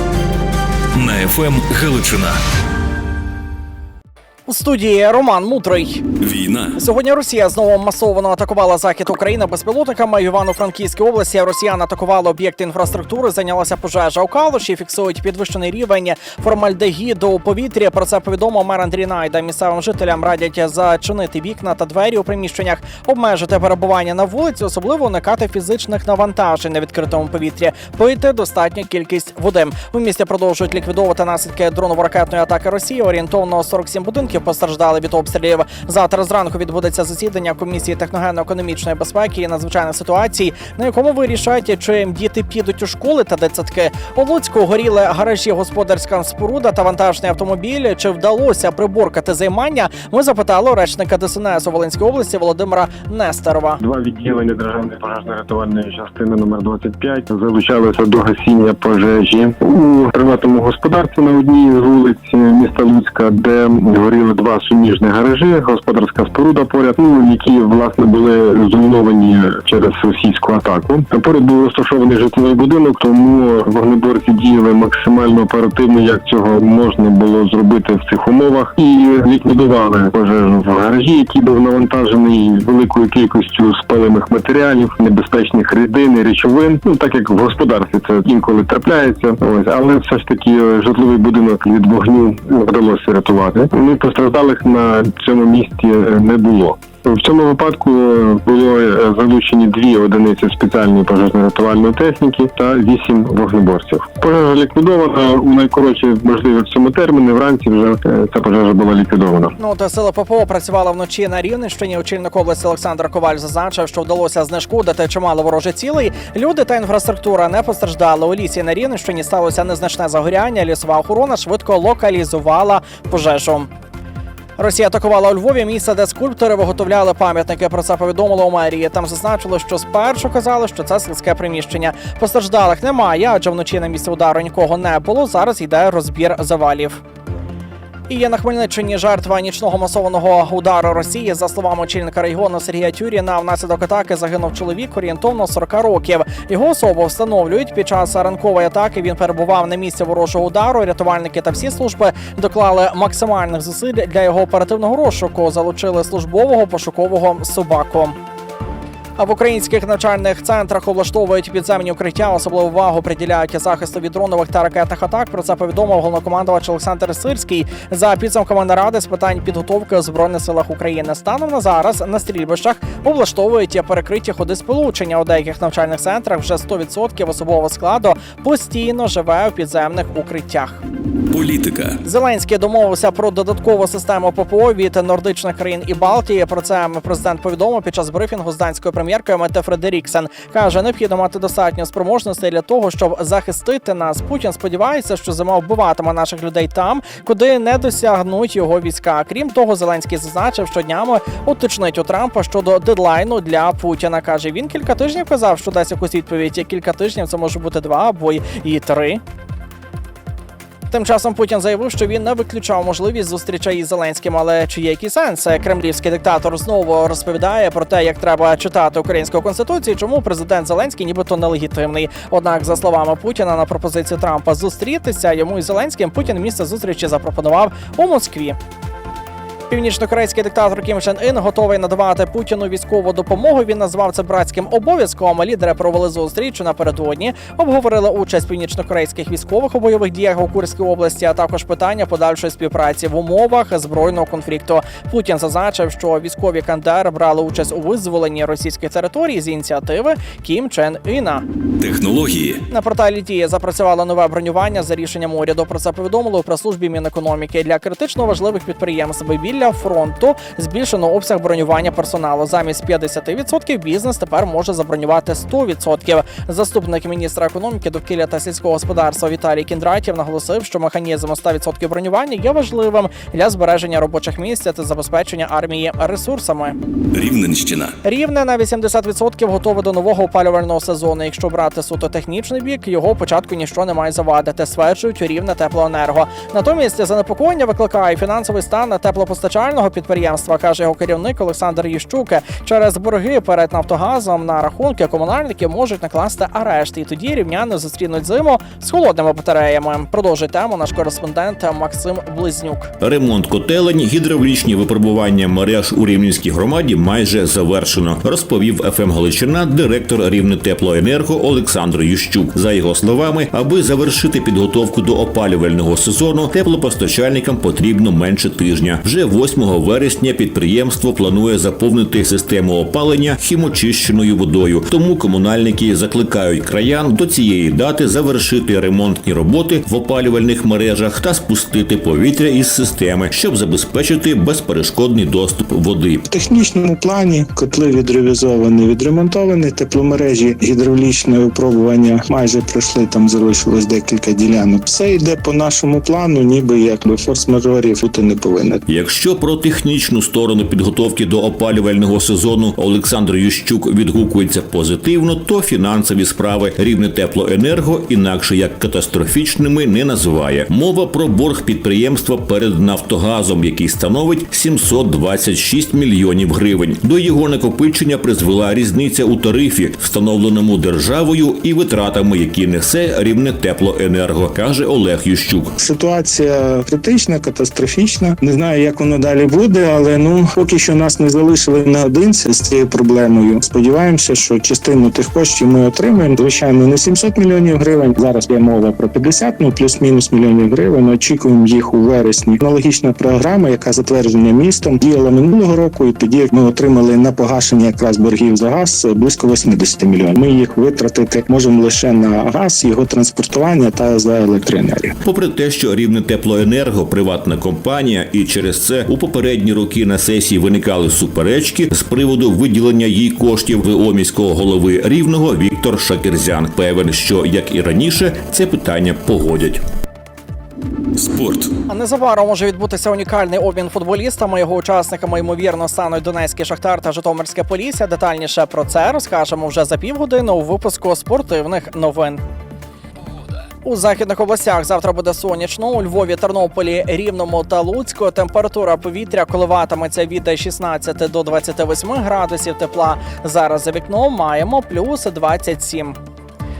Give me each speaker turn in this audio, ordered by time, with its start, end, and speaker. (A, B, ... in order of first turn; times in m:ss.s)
0:00.9-0:02.3 A
0:04.4-0:06.0 B
0:06.2-0:06.8 A
0:06.8-0:53.8 B
0:53.8-1:49.5 C
1:49.6-2:03.7 B
2:04.6-2:17.0 B
2:18.1-2:38.2 B
2:39.2-3:00.8 B
3:01.3-3:02.0 A
3:02.0-3:29.2 B
3:30.9-3:48.6 B
3:49.7-4:11.4 B
4:11.8-4:12.6 A
4:12.7-4:36.8 B
4:37.1-4:37.9 A
4:38.0-5:02.9 B
5:03.0-5:36.2 D
5:36.2-5:48.8 E
5:48.9-6:15.7 D
6:15.8-6:45.2 E
6:45.2-6:59.8 D
7:01.2-7:01.7 A
7:01.9-7:12.4 B
7:13.8-7:26.2 B